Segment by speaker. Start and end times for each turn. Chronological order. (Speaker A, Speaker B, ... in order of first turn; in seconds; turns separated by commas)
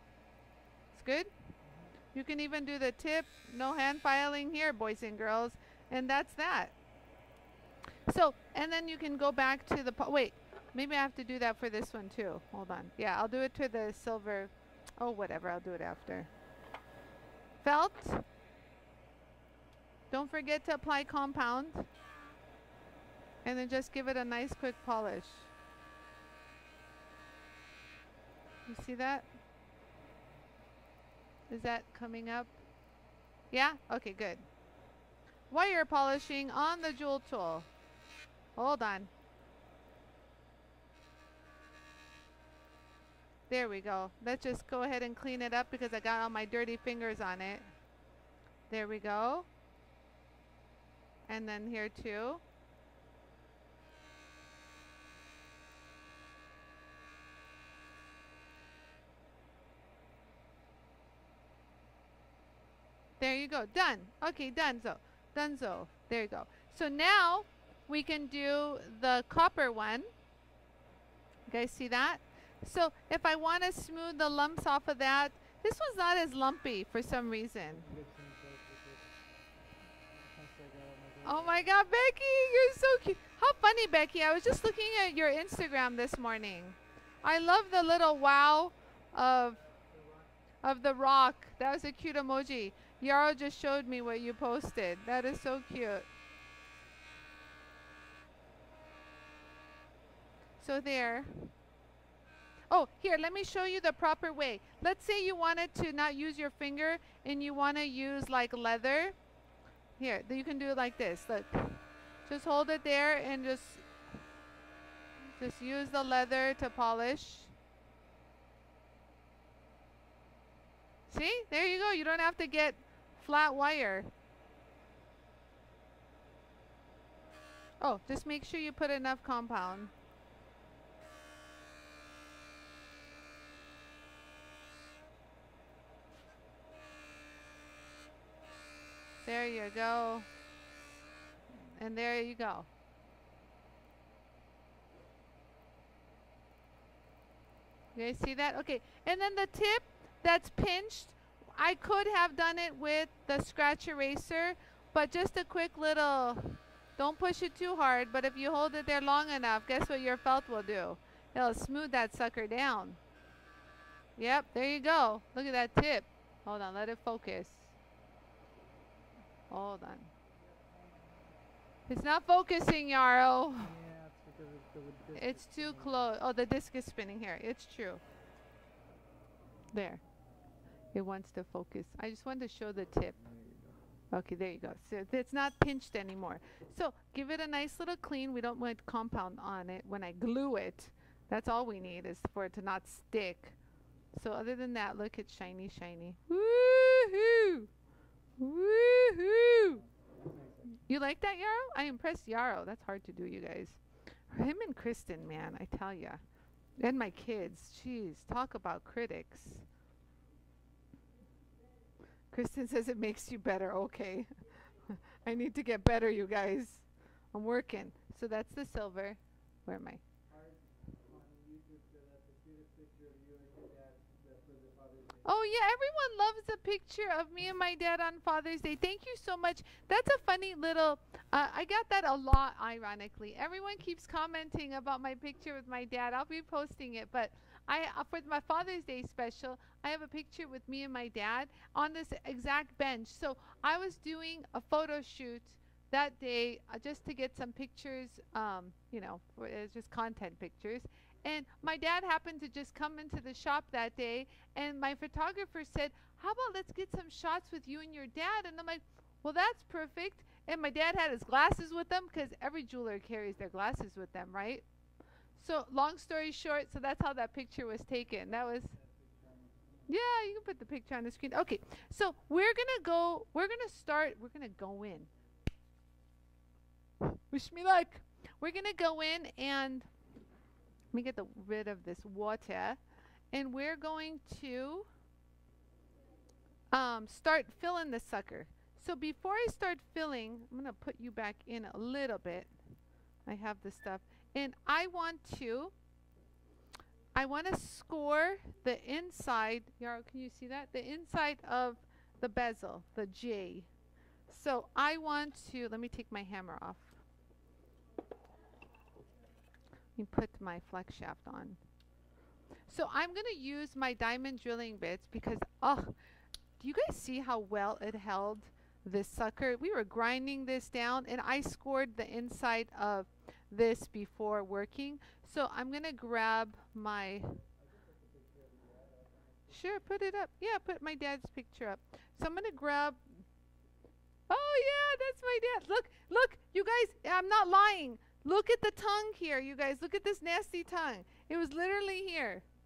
Speaker A: 0.9-1.3, Speaker B: 1.6-2.0, Speaker A: 2.1-6.7, Speaker A: 8.1-16.3, Speaker A: 17.6-18.2, Speaker A: 20.1-21.9, Speaker A: 23.4-25.5, Speaker A: 28.7-29.3, Speaker A: 31.5-32.5, Speaker A: 33.5-34.5, Speaker A: 35.5-37.7, Speaker A: 38.6-39.1, Speaker A: 43.5-47.7, Speaker A: 48.7-49.5, Speaker A: 51.3-52.4, Speaker A: 63.2-70.1, Speaker A: 71.5-77.9, Speaker B: 77.6-79.2, Speaker B: 80.0-81.7, Speaker A: 81.2-89.6, Speaker B: 89.6-90.4, Speaker A: 90.6-96.1, Speaker A: 100.6-101.5, Speaker A: 102.7-109.2, Speaker A: 110.0-113.9, Speaker A: 115.4-117.5, Speaker A: 121.1-124.1, Speaker A: 127.8-129.9, Speaker A: 139.2-140.3, Speaker A: 141.7-142.7, Speaker A: 147.9-163.0, Speaker A: 164.2-167.7, Speaker A: 169.5-170.1, Speaker B: 170.2-171.6, Speaker A: 171.9-173.7, Speaker B: 173.6-176.1, Speaker A: 175.1-178.0, Speaker A: 179.7-180.0, Speaker A: 180.9-183.2, Speaker B: 183.1-183.8, Speaker A: 184.1-193.6, Speaker A: 194.1-197.7, Speaker A: 198.4-199.8, Speaker B: 199.4-200.8, Speaker A: 200.9-206.2, Speaker A: 206.8-209.7, Speaker A: 212.3-214.3, Speaker A: 214.9-220.0, Speaker B: 220.3-225.4, Speaker A: 225.2-264.6, Speaker A: 265.4-268.7, Speaker B: 268.2-270.0, Speaker A: 269.9-275.1, Speaker A: 277.0-279.9, Speaker A: 280.9-282.8, Speaker A: 283.3-284.9, Speaker A: 286.7-292.5, Speaker A: 293.3-295.7, Speaker A: 297.1-303.7, Speaker A: 304.3-306.9, Speaker A: 310.0-311.6, Speaker A: 312.7-315.9, Speaker A: 316.6-327.4, Speaker B: 327.2-330.1, Speaker A: 329.5-333.0, Speaker A: 334.3-342.4